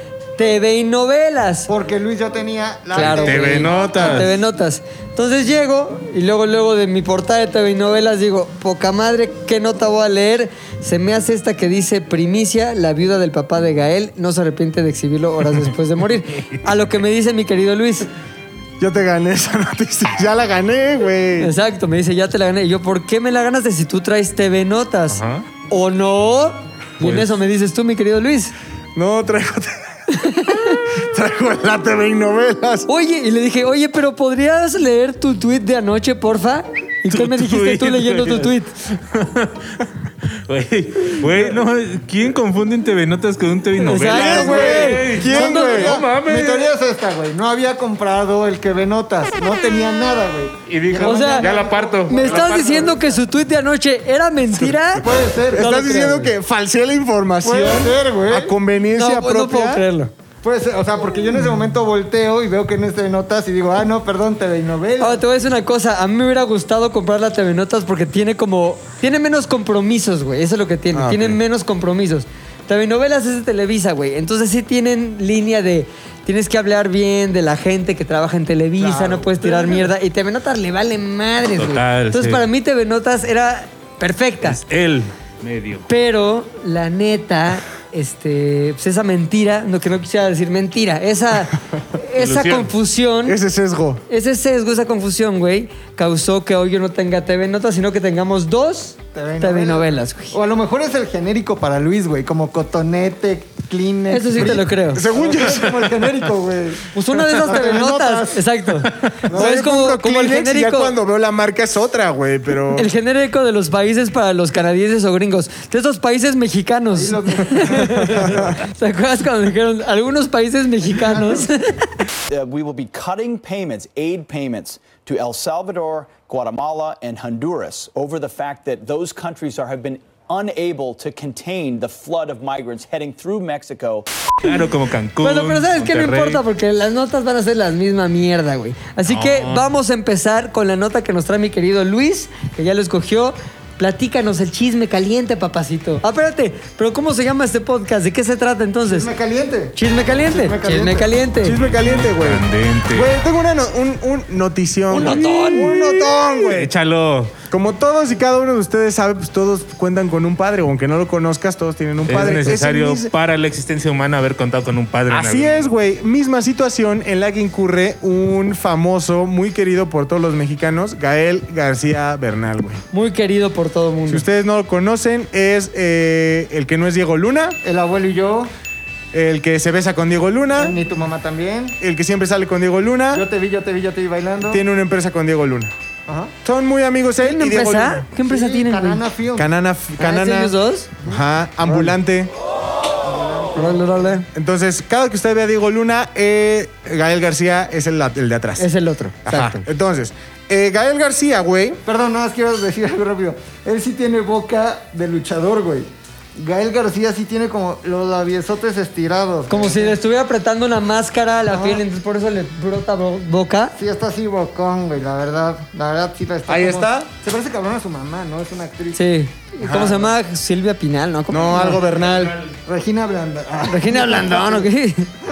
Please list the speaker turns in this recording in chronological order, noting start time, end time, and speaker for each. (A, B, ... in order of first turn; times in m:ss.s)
0:00.4-0:01.7 A
0:01.7-0:04.3 B
0:02.9-0:18.1 A
0:02.9-0:04.3 C
0:18.8-0:21.5 D
0:21.4-0:28.5 A
0:25.1-0:25.4 C
0:28.9-0:32.8 D
0:30.1-0:30.8 A
0:32.9-0:38.7 A
0:37.1-0:39.8 C
0:40.5-0:46.7 C
0:43.8-0:45.8 A
0:44.0-0:46.0 D
0:44.2-0:53.2 B
0:50.7-0:52.7 C
0:51.0-0:51.5 A
0:52.1-0:56.3 A
0:54.5-0:59.8 D
0:55.0-0:55.7 B
0:57.4-0:58.5 B
0:58.9-1:00.1 A
1:00.4-1:05.2 B
1:05.0-1:24.6 A
1:10.9-1:11.4 D
1:18.8-1:19.8 B
1:21.6-1:22.4 C
1:24.4-1:25.8 C
1:25.9-1:33.4 A
1:32.2-1:32.7 C
1:33.2-1:34.0 D
1:34.1-1:40.4 A
1:39.1-1:48.4 B
1:44.1-1:45.0 A
1:44.9-1:46.0 D
1:46.9-1:50.9 A
1:49.3-1:49.6 B
1:49.3-1:52.9 D
1:52.7-2:02.0 A
1:56.9-1:58.6 B
2:01.0-2:01.5 B
2:02.3-2:14.0 E
2:14.4-2:16.4 C
2:15.2-2:29.1 A
2:19.1-2:19.7 C
2:28.9-2:31.1 B
2:29.7-2:31.6 A
2:31.4-2:36.7 D
2:31.5-2:33.1 C
2:34.9-2:35.7 A
2:35.0-2:37.3 C
2:37.5-2:43.1 D
2:42.0-2:45.6 C
2:45.1-2:52.8 D
2:52.9-2:54.2 A
2:54.1-2:57.6 D
2:57.6-2:58.5 B
2:59.1-3:00.8 D
3:00.6-3:01.8 B
3:01.8-3:03.2 D
3:03.1-3:04.6 B
3:04.5-3:05.7 D
3:06.1-3:06.3 B
3:06.4-3:08.1 D
3:07.2-3:09.0 A
3:08.2-3:09.5 B
3:09.3-3:12.3 D
3:10.0-3:10.9 A
3:13.0-3:13.9 B
3:13.6-3:14.2 A
3:14.3-3:18.7 D
3:18.6-3:19.6 A
3:19.2-3:21.8 D
3:21.8-3:30.0 B
3:29.5-3:33.7 A
3:31.5-3:31.8 B
3:33.8-3:39.0 B
3:36.5-3:37.1 D
3:38.9-3:41.8 A
3:39.6-3:40.1 D
3:41.3-3:42.4 D
3:42.0-3:42.5 C
3:42.6-3:44.7 B
3:43.7-3:45.1 A